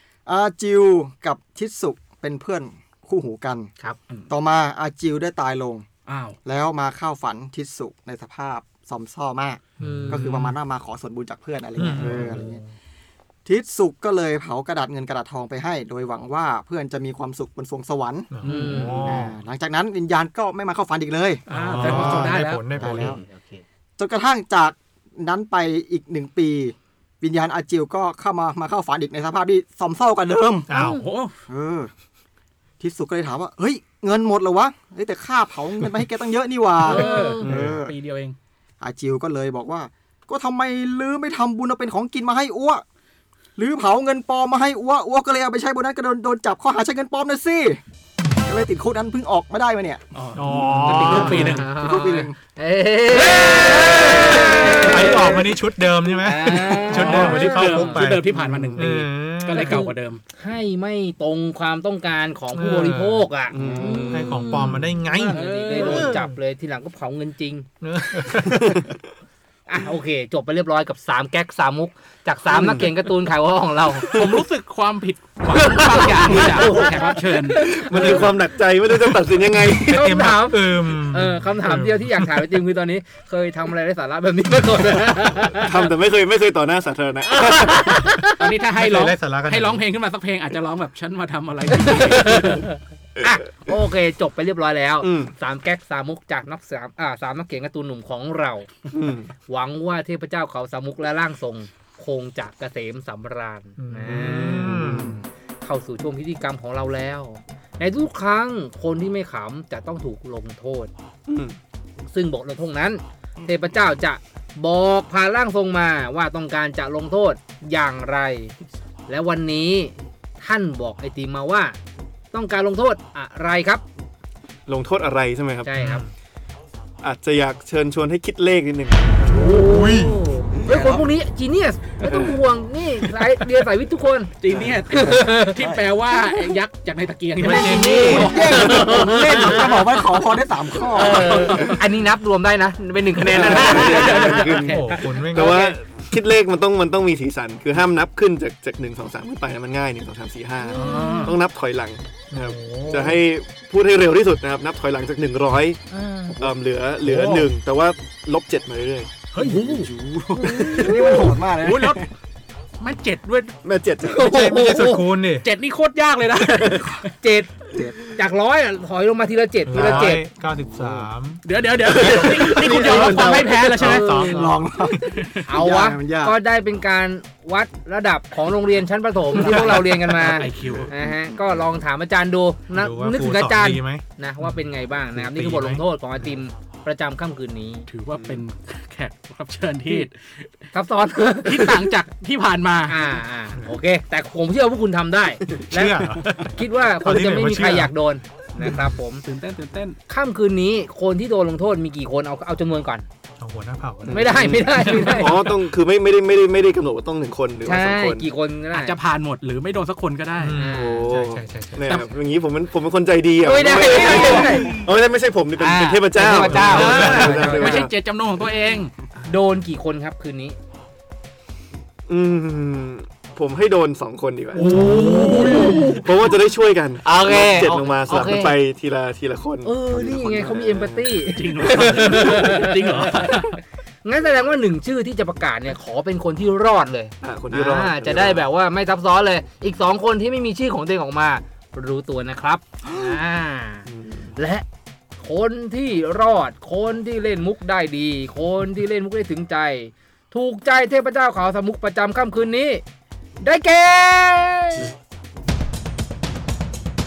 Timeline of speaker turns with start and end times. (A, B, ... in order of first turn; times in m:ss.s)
0:00.2-0:03.7 A
0:04.3-0:05.8 A
0:06.0-0:06.4 B
0:06.4-0:12.6 A
0:09.8-0:10.6 C
0:09.8-0:10.2 D
0:11.8-0:12.4 C
0:12.0-0:12.6 D
0:13.4-0:23.2 A
0:18.3-0:19.3 C
0:18.4-0:19.0 B
0:18.4-0:19.3 D
0:21.5-0:22.7 B
0:21.5-0:23.2 C
0:22.7-0:23.6 D
0:24.0-0:30.7 A
0:30.7-0:31.0 C
0:30.7-0:31.0 D
0:30.8-0:31.3 B
0:31.5-0:31.9 A
0:32.8-0:37.9 A
0:36.8-0:38.4 B
0:36.8-0:37.5 D
0:37.4-0:37.8 E
0:38.8-0:42.8 A
0:43.6-0:47.8 A
0:48.4-0:52.4 A
0:50.1-0:52.2 B
0:50.3-0:51.6 C
0:51.0-0:55.4 D
0:53.1-0:55.4 B
0:54.1-0:59.9 C
0:56.2-0:58.0 D
0:56.8-1:00.2 B
0:58.4-0:58.9 E
0:59.5-1:07.7 D
1:02.5-1:03.3 C
1:03.5-1:04.4 E
1:04.1-1:06.4 C
1:05.3-1:06.2 B
1:07.8-1:08.8 C
1:08.6-1:08.9 E
1:09.7-1:14.1 D
1:12.5-1:12.9 E
1:14.1-1:17.7 B
1:15.5-1:18.4 D
1:16.2-1:17.0 E
1:17.6-1:20.0 E
1:19.9-1:22.4 C
1:19.9-1:25.9 D
1:25.5-1:28.2 E
1:27.3-1:28.5 D
1:28.4-1:32.7 B
1:28.8-1:29.8 C
1:31.8-1:32.6 D
1:33.2-1:38.7 D
1:35.0-1:35.3 E
1:38.9-1:39.3 E
1:39.5-1:44.9 D
1:43.8-1:45.2 C
1:44.4-1:45.1 E
1:44.9-1:45.2 A
1:45.6-1:50.9 D
1:51.3-1:51.6 E
1:52.1-1:58.5 D
1:59.1-2:01.8 D
2:02.3-2:03.8 D
2:04.7-2:05.7 E
2:05.6-2:06.0 D
2:05.8-2:06.1 C
2:07.0-2:09.4 E
2:09.2-2:14.3 D
2:09.6-2:10.2 C
2:10.6-2:11.0 A
2:12.0-2:12.4 E
2:14.4-2:19.7 B
2:14.5-2:14.8 E
2:14.9-2:15.6 D
2:17.4-2:18.8 C
2:17.4-2:19.8 D
2:18.1-2:21.6 A
2:18.5-2:18.9 E
2:20.9-2:25.7 D
2:20.9-2:21.8 B
2:23.3-2:35.8 E
2:23.4-2:25.0 B
2:24.6-2:25.7 C
2:30.6-2:31.4 D
2:30.7-2:31.4 B
2:32.3-2:33.0 C
2:35.9-2:36.4 D
2:36.4-2:39.3 E
2:37.0-2:37.5 C
2:39.3-2:39.9 B
2:39.4-2:42.1 A
2:40.4-2:41.4 D
2:40.8-2:42.0 B
2:42.8-2:43.6 B
2:43.6-2:44.3 E
2:44.0-2:45.1 D
2:44.2-2:45.5 C
2:45.4-2:47.1 B
2:46.6-2:46.8 E
2:47.2-2:50.2 D
2:47.7-2:48.1 A
2:49.6-2:51.4 C
2:50.6-2:51.1 E
2:51.4-2:54.0 B
2:51.9-2:56.4 A
2:52.1-2:52.5 C
2:52.8-2:54.5 D
2:53.7-2:55.0 C
2:55.1-2:55.4 B
2:55.5-3:07.9 D
2:59.3-3:01.4 A
2:59.5-3:00.9 B
3:02.7-3:05.8 C
3:07.9-3:10.5 B
3:08.1-3:08.4 E
3:10.7-3:11.8 D
3:11.4-3:13.1 B
3:12.9-3:19.2 D
3:15.7-3:17.9 C
3:19.2-3:20.0 B
3:20.1-3:23.0 D
3:23.4-3:24.3 C
3:24.0-3:28.3 E
3:24.1-3:25.5 D
3:24.7-3:25.4 B
3:27.6-3:29.0 D
3:28.7-3:30.6 B
3:30.4-3:31.9 C
3:30.5-3:31.1 D
3:30.6-3:37.9 E
3:31.8-3:32.1 B
3:33.4-3:34.8 D
3:33.9-3:34.8 B
3:34.2-3:34.7 A
3:35.6-3:37.8 D
3:36.5-3:38.9 B
3:36.5-3:37.3 C
3:39.2-3:40.6 D
3:42.1-3:51.1 E
3:44.5-3:46.1 D
3:44.6-3:45.9 C
3:44.8-3:45.9 A
3:47.0-3:48.5 D
3:49.6-3:53.1 D
3:49.8-3:50.6 A
3:51.3-3:53.6 B
3:54.0-4:04.6 D
3:57.2-3:58.5 E
4:03.9-4:04.3 E
4:05.2-4:12.8 D
4:13.4-4:14.9 D